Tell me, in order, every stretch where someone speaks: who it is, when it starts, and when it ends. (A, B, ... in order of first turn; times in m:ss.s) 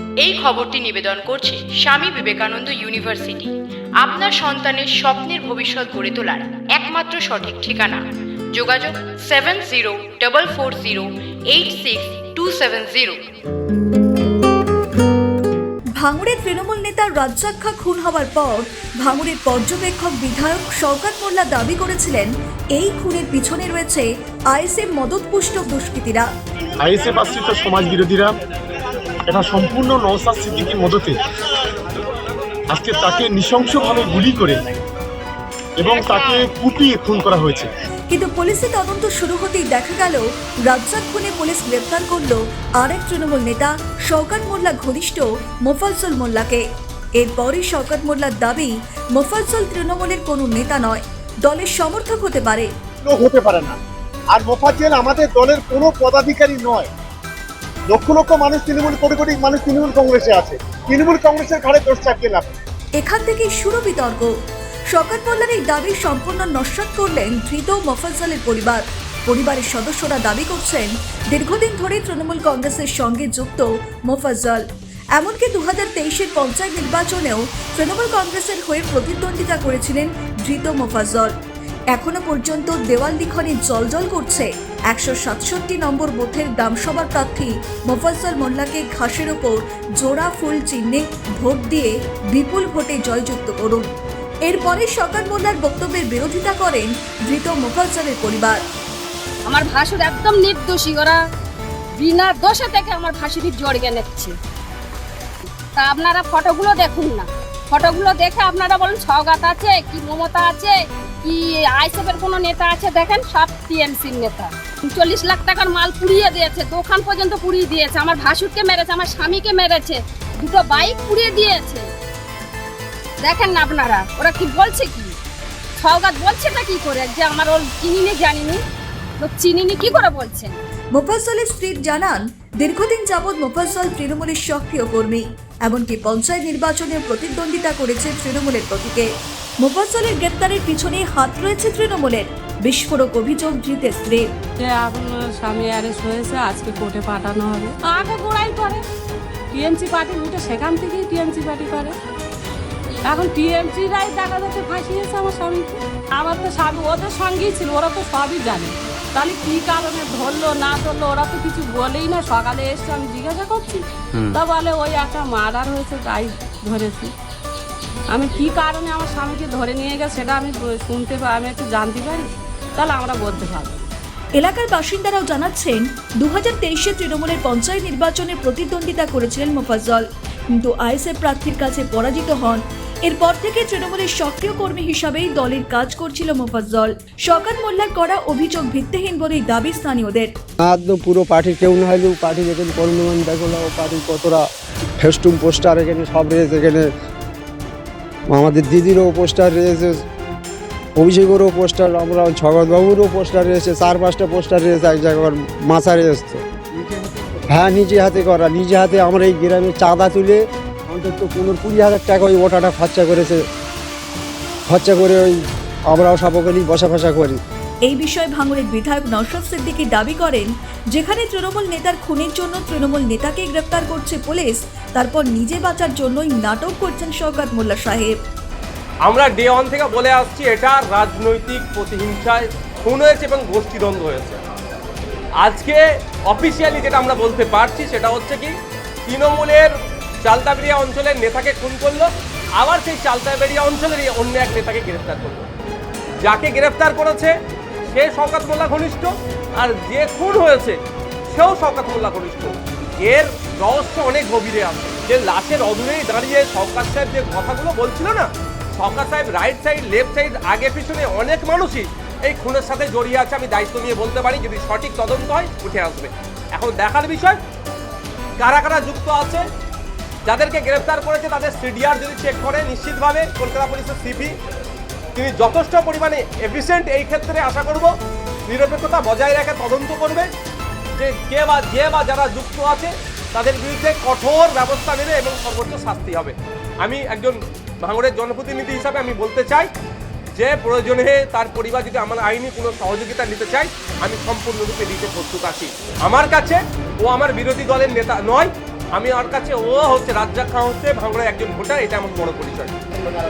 0:00.2-0:03.5 A
0:04.0-0:08.0 A
0:08.6-0:13.2 A
0:16.0-0:26.3 B
0:26.8-0:28.3 C
0:29.3-0:31.2 C
0:32.7-0:34.6 C
0:35.8-0:37.7 C
0:38.1-0:46.6 B
0:47.2-0:52.7 B
0:53.0-0:53.8 D
0:54.3-0:56.9 D
0:57.9-1:02.5 D
1:03.0-1:04.3 B
1:04.9-1:14.6 B
1:15.2-1:21.3 B
1:21.9-1:33.9 B
1:34.5-1:38.6 B
1:39.5-1:41.2 E
1:42.0-1:44.4 E
1:45.8-2:01.8 E
2:03.2-2:05.1 E
2:05.8-2:08.6 E
2:09.2-2:10.6 E
2:11.0-2:19.1 B
2:19.6-2:24.2 B
2:24.6-2:28.8 F
2:29.5-2:31.9 F
2:33.1-2:47.1 F
2:48.1-2:53.7 F
2:54.4-3:00.0 B
3:00.6-3:10.3 B
3:10.7-3:14.4 G
3:15.0-3:16.8 G
3:18.4-3:19.9 G
3:21.0-3:30.3 G
3:30.9-3:33.3 G
3:34.7-3:35.3 G
3:36.0-3:37.4 G
3:37.8-3:48.1 B
3:49.1-3:54.4 H
3:55.4-3:58.5 H
3:59.1-3:59.7 H
4:00.2-4:05.5 H
4:06.2-4:07.3 H
4:07.9-4:10.8 H
4:11.3-4:27.4 H
4:28.4-4:29.4 H
4:30.3-4:34.3 H
4:35.2-4:37.9 H
4:38.5-4:40.3 H
4:41.0-4:49.7 H
4:50.4-5:02.7 H